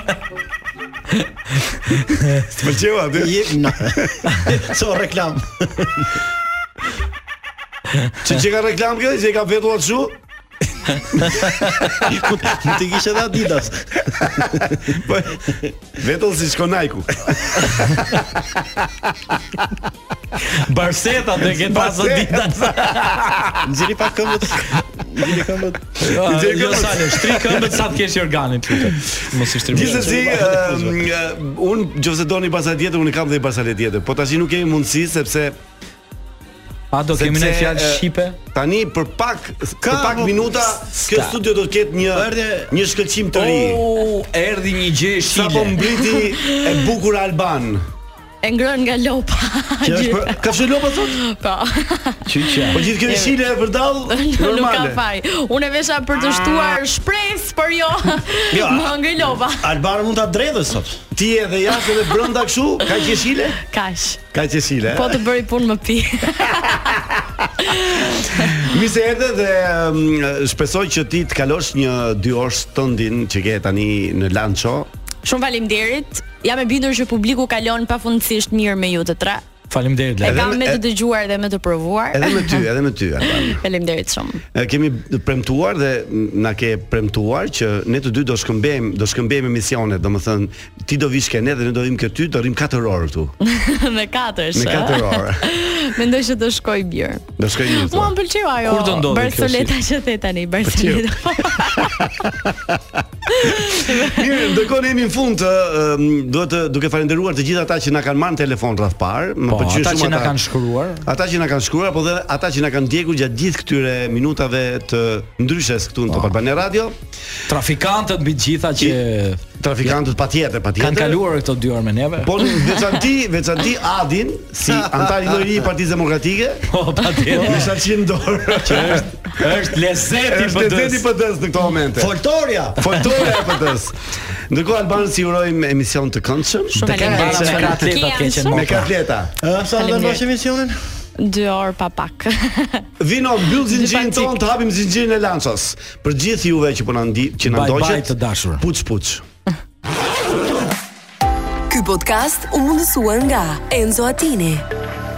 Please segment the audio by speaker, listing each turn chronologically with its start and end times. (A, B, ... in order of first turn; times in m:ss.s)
0:02.4-0:04.1 A
0:03.2-0:06.1 B
0:08.2-0:10.2 A
0:12.0-0:12.5 A
0:12.1-0:14.8 B
0:14.4-0:19.6 A
0:20.5-0:23.2 C
0:21.4-0:23.6 A
0:23.6-0:25.9 B
0:26.0-0:27.8 A
0:26.0-0:30.9 C
0:29.6-0:35.6 A
0:30.1-0:30.4 B
0:36.9-0:38.4 C
0:37.1-0:43.8 A
0:39.8-0:40.8 B
0:41.1-0:41.4 C
0:42.1-0:42.7 B
0:43.4-0:45.8 C
0:45.3-0:47.8 A
0:46.0-0:46.8 D
0:48.4-0:50.4 D
0:49.8-0:50.4 B
0:50.4-0:51.2 A
0:51.0-0:53.4 D
0:52.4-0:52.8 B
0:52.7-0:55.0 A
0:54.1-0:59.7 D
0:58.5-0:59.0 A
0:59.6-1:01.0 B
1:01.1-1:03.6 A
1:02.8-1:04.2 D
1:04.3-1:05.2 A
1:04.9-1:07.0 D
1:06.6-1:14.9 A
1:07.7-1:08.6 D
1:15.2-1:19.5 D
1:19.7-1:20.5 C
1:20.2-1:22.6 D
1:20.2-1:20.8 A
1:22.1-1:23.6 A
1:23.2-1:24.4 D
1:24.5-1:33.4 A
1:33.4-1:42.1 D
1:34.5-1:35.5 A
1:37.4-1:38.2 A
1:38.6-1:39.7 C
1:40.6-1:42.8 A
1:43.4-1:44.4 D
1:43.4-1:50.4 A
1:49.5-1:51.1 C
1:51.0-1:57.0 A
1:57.5-1:59.9 C
1:59.6-2:01.2 A
2:00.8-2:02.4 C
2:02.2-2:06.6 A
2:04.7-2:05.5 B
2:06.7-2:07.7 C
2:07.3-2:12.1 A
2:08.7-2:11.1 C
2:12.0-2:13.0 B
2:12.8-2:17.8 A
2:16.7-2:18.8 D
2:16.8-2:18.9 C
2:18.5-2:19.3 A
2:19.4-2:20.8 B
2:19.8-2:20.2 D
2:21.2-2:22.9 D
2:23.0-2:29.2 A
2:23.6-2:24.4 D
2:27.4-2:28.6 C
2:31.7-2:34.7 E